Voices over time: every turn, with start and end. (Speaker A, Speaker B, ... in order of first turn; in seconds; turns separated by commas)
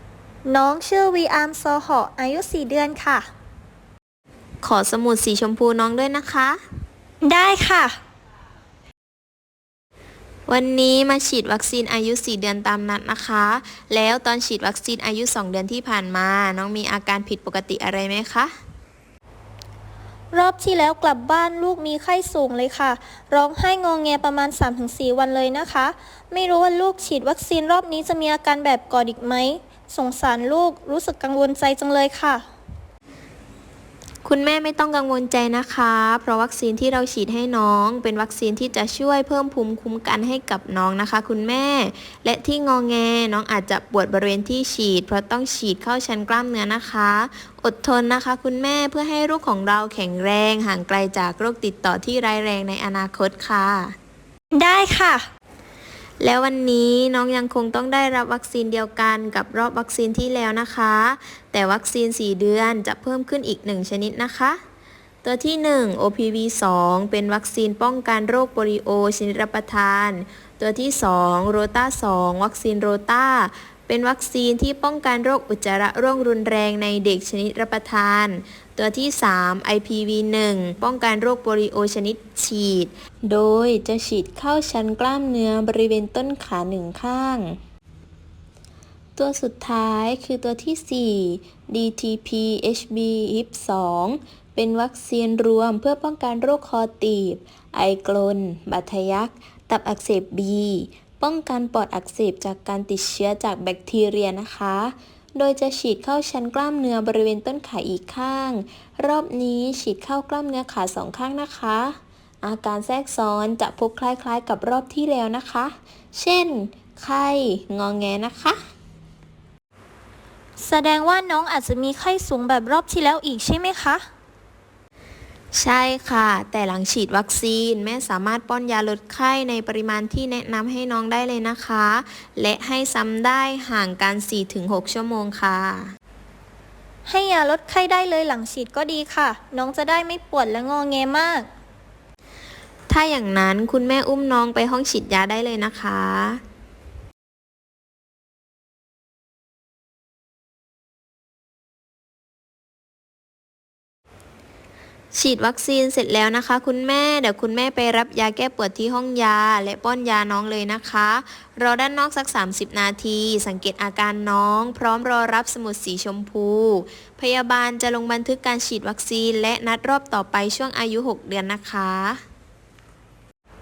Speaker A: 0.5-3.3, Speaker B: 4.6-6.6, Speaker A: 7.2-8.0, Speaker B: 10.5-18.5, Speaker A: 20.3-32.5, Speaker B: 34.2-54.0, Speaker A: 54.5-55.3, Speaker B: 56.2-64.6, Speaker B: 65.2-87.6, Speaker B: 89.2-118.6, Speaker A: 120.6-124.0, Speaker B: 125.5-135.9, Speaker A: 137.1-141.5, Speaker B: 142.9-146.4, Speaker B: 155.1-172.2